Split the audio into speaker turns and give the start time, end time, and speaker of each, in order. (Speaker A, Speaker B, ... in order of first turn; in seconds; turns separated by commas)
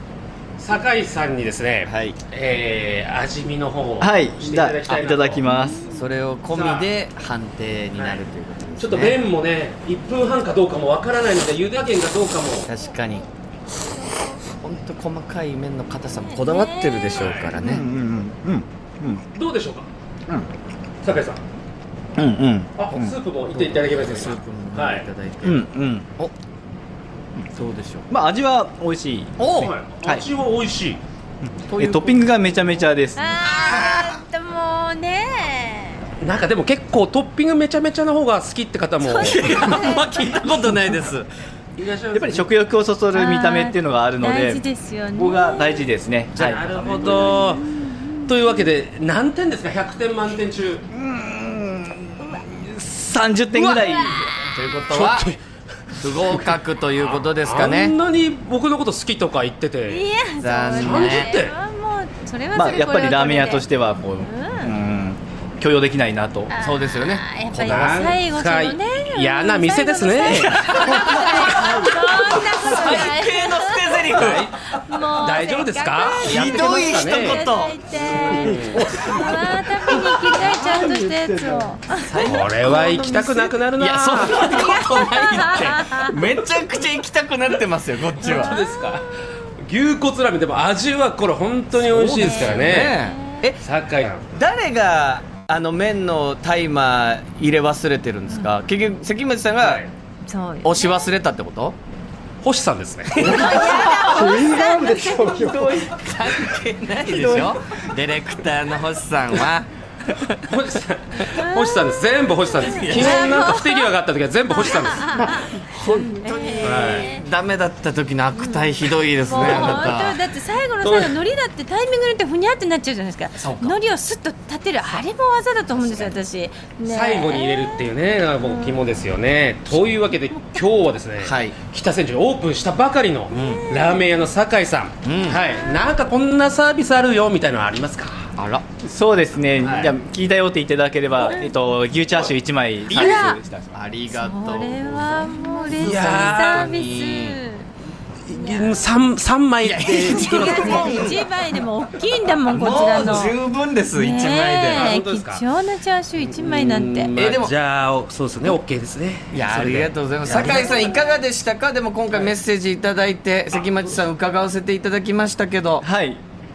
Speaker A: 0.6-5.4, Speaker B: 1.8-2.2, Speaker C: 4.0-5.8, Speaker D: 5.4-5.9, Speaker B: 5.9-9.2, Speaker A: 6.5-6.9, Speaker A: 8.0-8.2, Speaker A: 8.8-12.7, Speaker B: 12.6-13.3, Speaker D: 14.0-14.4, Speaker B: 14.6-17.8, Speaker D: 16.2-17.3, Speaker A: 17.1-17.6, Speaker C: 17.6-19.2, Speaker A: 19.3-19.9, Speaker A: 21.0-21.4, Speaker C: 22.2-23.2, Speaker A: 22.8-25.1, Speaker B: 23.5-26.3, Speaker C: 25.4-26.1, Speaker B: 27.5-28.1, Speaker C: 28.1-30.2, Speaker B: 29.4-29.7, Speaker A: 29.6-31.0, Speaker C: 31.5-33.4, Speaker B: 31.7-32.5, Speaker D: 33.2-36.0, Speaker B: 33.7-34.1, Speaker A: 36.2-39.6, Speaker B: 39.1-41.3, Speaker D: 39.3-40.3, Speaker A: 41.8-42.5, Speaker C: 42.1-44.6, Speaker D: 43.1-45.9, Speaker C: 45.2-46.6, Speaker A: 46.3-47.6, Speaker D: 46.7-48.4, Speaker A: 48.3-50.9, Speaker C: 50.9-54.4, Speaker D: 53.6-54.2, Speaker B: 54.4-55.3, Speaker A: 54.9-55.4, Speaker A: 55.9-60.0, Speaker B: 56.0-57.9, Speaker D: 59.9-64.7, Speaker B: 60.4-61.3, Speaker A: 60.8-61.5, Speaker C: 62.5-66.5, Speaker D: 66.5-74.2, Speaker B: 66.6-67.8, Speaker A: 67.5-71.6, Speaker B: 70.3-72.0, Speaker C: 71.6-71.9, Speaker C: 72.6-73.0, Speaker B: 72.6-74.5, Speaker A: 74.1-79.5, Speaker D: 74.7-82.2, Speaker B: 76.2-77.8, Speaker C: 76.3-77.0, Speaker C: 78.1-81.6, Speaker B: 82.0-88.6, Speaker A: 82.2-84.5, Speaker D: 84.4-86.1, Speaker D: 88.2-88.9, Speaker A: 88.2-93.0, Speaker B: 91.7-93.6, Speaker D: 92.1-93.5, Speaker A: 93.6-94.3, Speaker B: 94.3-99.8, Speaker D: 98.3-98.5, Speaker A: 99.6-99.9, Speaker D: 100.2-101.1, Speaker B: 100.6-101.8, Speaker A: 102.4-103.4, Speaker B: 103.2-104.6, Speaker C: 103.2-107.6, Speaker D: 103.2-105.4, Speaker B: 105.3-110.4, Speaker A: 110.5-115.3, Speaker D: 111.3-113.9, Speaker B: 112.6-113.5, Speaker D: 114.5-117.2, Speaker B: 115.5-120.2, Speaker A: 116.6-117.1, Speaker D: 118.3-129.0, Speaker A: 119.3-120.1, Speaker A: 120.8-121.2, Speaker B: 123.4-123.8, Speaker B: 125.7-126.1, Speaker A: 126.9-138.2, Speaker B: 131.2-131.6, Speaker B: 133.3-133.6, Speaker D: 133.3-134.0, Speaker B: 135.0-135.4, Speaker D: 135.5-135.9, Speaker B: 138.4-138.6, Speaker C: 138.8-143.8, Speaker A: 139.6-139.9, Speaker B: 142.9-147.4, Speaker D: 142.9-143.4, Speaker D: 144.1-147.7, Speaker A: 145.7-146.8, Speaker A: 148.2-151.1, Speaker D: 148.3-148.9, Speaker B: 149.6-151.2, Speaker D: 150.0-153.4, Speaker B: 152.5-154.9, Speaker D: 153.9-157.1, Speaker A: 154.7-155.4, Speaker A: 156.2-160.9, Speaker B: 157.2-157.5, Speaker B: 159.3-165.8, Speaker D: 160.4-161.2, Speaker C: 165.8-166.2